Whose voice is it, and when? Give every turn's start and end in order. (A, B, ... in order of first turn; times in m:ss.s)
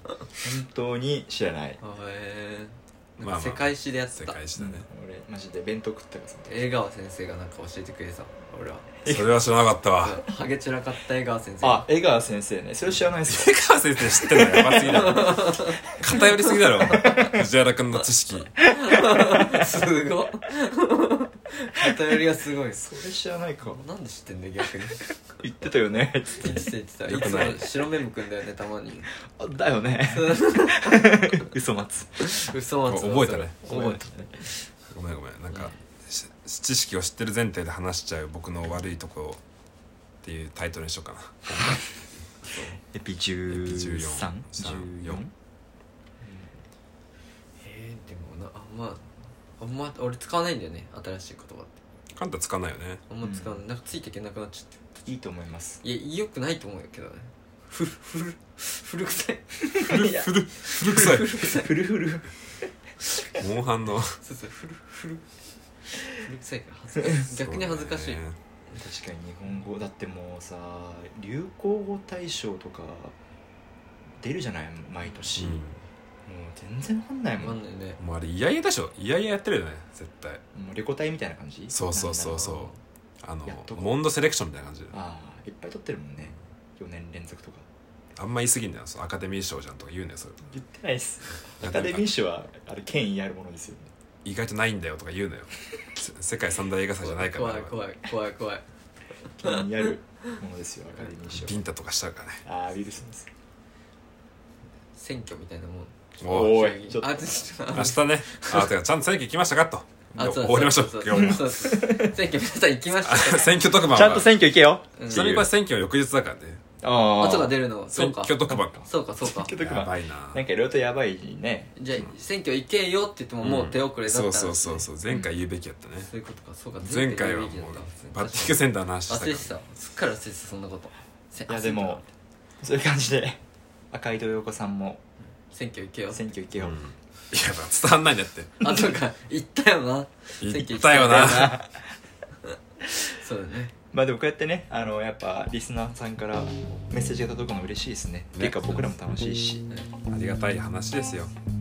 0:00.4-0:01.8 A
0:01.8-0:04.4 B
0:03.2-0:04.9 C
0:04.6-0:06.7 A
0:06.5-0:08.9 B
0:09.0-0:10.2 C
0:10.0-0:11.9 B
0:11.6-0:13.6 A
0:13.3-0:18.5 C
0:14.1-0:15.2 A
0:14.9-0:17.3 B
0:16.8-0:17.4 A
0:18.7-0:22.8 B
0:18.9-0:19.6 A
0:22.7-0:23.8 A
0:23.6-0:25.1 B
0:25.4-0:26.7 A
0:26.4-0:29.1 B
0:27.1-0:27.7 C
0:29.3-0:32.4 A
0:30.1-0:31.4 B
0:32.2-0:34.6 B
0:32.9-0:33.6 C
0:33.6-0:34.3 A
0:34.9-0:39.4 C
0:40.2-0:42.0 C
0:42.5-0:42.8 B
0:42.9-0:45.3 A
0:43.5-0:45.2 C
0:46.2-0:46.5 A
0:47.6-0:51.8 B
0:52.1-0:53.0 C
0:53.1-0:55.1 B
0:53.2-0:53.6 A
0:55.1-0:55.8 A
0:55.8-0:59.8 B
0:59.8-1:00.3 A
0:59.8-1:01.4 C
1:00.6-1:01.7 B
1:00.8-1:02.7 A
1:03.3-1:04.2 C
1:04.2-1:05.2 B
1:06.1-1:08.2 B
1:07.3-1:08.4 C
1:08.8-1:13.2 A
1:14.2-1:15.6 A
1:15.4-1:15.8 C
1:16.2-1:17.6 A
1:17.4-1:18.0 B
1:18.0-1:20.4 C
1:20.5-1:22.5 A
1:21.7-1:25.0 C
1:22.4-1:22.8 B
1:23.5-1:23.9 A
1:24.9-1:27.7 A
1:28.2-1:30.5 C
1:30.5-1:33.9 A
1:31.6-1:32.0 C
1:34.2-1:37.8 C
1:37.0-1:38.6 B
1:39.4-1:41.6 A
1:39.4-1:39.8 B
1:41.3-1:42.4 C
1:42.4-1:43.3 A
1:44.9-1:48.7 B
1:46.2-1:46.7 C
1:46.3-1:47.9 A
1:47.7-1:51.6 C
1:50.2-1:53.6 B
1:51.1-1:52.1 A
1:53.0-1:54.3 C
1:53.9-1:55.5 A
1:55.0-1:55.2 B
1:55.1-1:56.6 C
1:56.8-1:57.6 A
1:57.2-1:59.5 B
1:57.9-1:58.8 C
1:58.5-2:01.7 A
1:59.5-2:00.4 C
2:01.8-2:04.8 B
2:03.4-2:06.1 C
2:06.0-2:12.0 B
2:06.8-2:09.5 C
2:11.5-2:12.0 A
2:12.6-2:15.0 A
2:15.5-2:16.2 B
2:16.1-2:16.8 A
2:16.6-2:18.6 C
2:18.6-2:21.5 B
2:20.4-2:21.6 C
2:21.0-2:21.9 A
2:22.4-2:23.7 B
2:23.9-2:29.6 A
2:28.3-2:28.6 C
2:30.1-2:31.3 C